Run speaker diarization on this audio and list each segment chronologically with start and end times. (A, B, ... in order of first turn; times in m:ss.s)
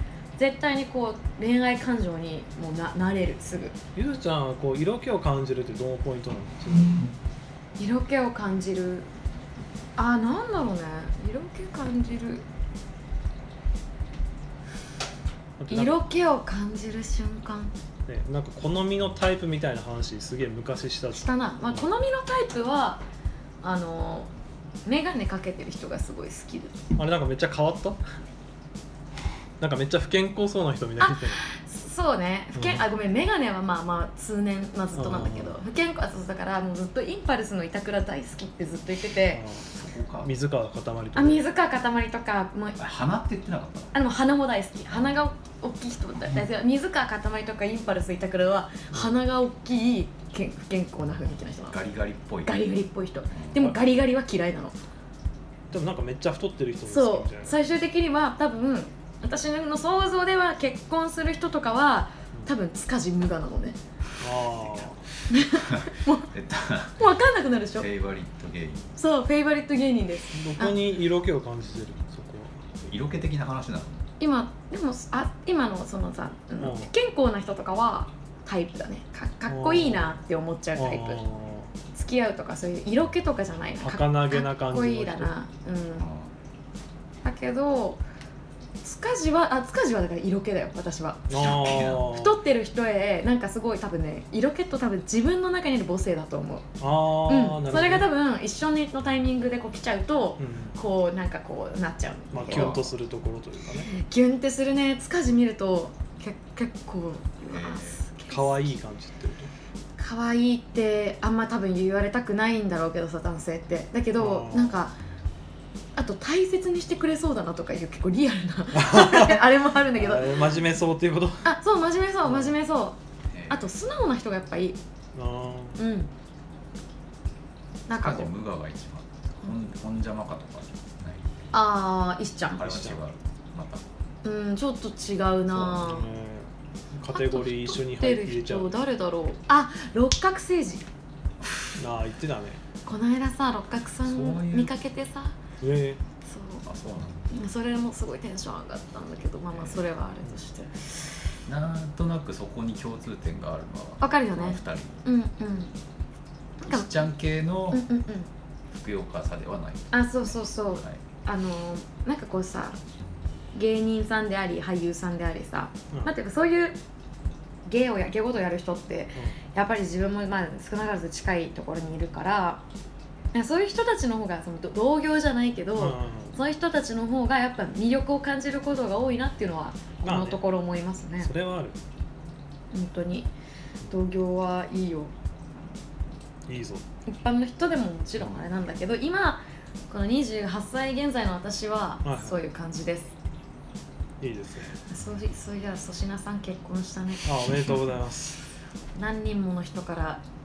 0:00.4-0:03.8 A
0:03.9-0:07.1 B
0:07.8-0:09.1 A
0:10.0-0:12.4 A
0:15.6-0:16.0 B
0:15.7-0:17.7 A
0:18.1-0:21.8 B
0:21.1-0:23.0 A
0:23.6-0:24.3 A
0:24.8-0:26.9 A
0:27.0-0:28.0 B
0:29.6-0:31.4 B
0:31.0-0:39.4 A
0:32.6-0:32.8 B
0:34.9-0:35.6 B
0:39.3-0:39.7 B
0:39.7-0:40.3 C
0:40.2-0:41.4 B
0:41.1-0:42.8 A
0:42.8-0:43.9 C
0:43.9-0:51.8 A
0:44.9-0:45.2 C
0:51.7-0:52.8 C
0:52.4-0:54.8 A
0:53.3-0:53.8 C
0:55.7-0:57.5 B
0:56.9-1:03.8 A
1:04.2-1:05.0 B
1:05.3-1:06.3 A
1:05.4-1:07.0 C
1:07.0-1:07.9 A
1:07.8-1:08.9 C
1:09.0-1:10.8 A
1:10.3-1:12.6 B
1:12.8-1:14.1 C
1:14.2-1:21.2 A
1:16.6-1:16.9 B
1:19.5-1:20.2 B
1:20.8-1:21.7 B
1:21.9-1:26.1 A
1:23.8-1:25.3 B
1:26.0-1:26.3 C
1:27.2-1:28.0 A
1:28.8-1:36.7 A
1:31.3-1:32.4 B
1:31.4-1:32.1 C
1:36.8-1:38.1 B
1:37.2-1:42.9 A
1:40.4-1:40.8 B
1:42.3-1:43.9 B
1:42.4-1:42.9 C
1:43.8-1:48.7 A
1:47.5-1:48.0 C
1:48.3-1:49.5 B
1:50.0-1:54.9 A
1:54.2-1:54.8 B
1:56.0-2:00.6 A
1:58.7-2:01.5 B
2:01.4-2:04.8 A
2:02.2-2:02.5 B
2:03.3-2:03.7 C
2:05.1-2:05.8 B
2:05.8-2:06.1 A
2:07.9-2:08.3 A
2:07.9-2:11.5 C
2:11.5-2:12.7 A
2:12.5-2:13.9 C
2:12.6-2:13.0 B
2:14.2-2:16.1 A
2:15.5-2:18.7 B
2:17.1-2:20.8 A
2:21.8-2:22.6 B
2:22.8-2:25.4 A
2:24.0-2:24.7 C
2:25.6-2:26.0 B
2:26.2-2:26.6 A
2:26.6-2:27.3 C
2:27.3-2:31.1 A
2:29.5-2:29.8 C
2:31.4-2:35.0 C
2:34.0-2:35.7 A
2:36.6-2:37.8 C
2:36.6-2:36.9 A
2:37.7-2:38.3 A
2:38.7-2:41.0 C
2:39.9-2:42.8 A
2:43.5-2:46.8 A
2:47.6-2:52.6 A
2:53.3-3:01.3 A
2:55.8-2:56.4 B
3:00.0-3:00.4 B
3:01.2-3:01.8 B
3:02.7-3:03.3 A
3:03.9-3:05.1 A
3:06.5-3:06.8 B
3:07.1-3:13.1 A
3:12.0-3:12.4 B
3:14.2-3:14.8 B
3:14.9-3:17.5 A
3:17.2-3:18.4 B
3:18.9-3:20.2 A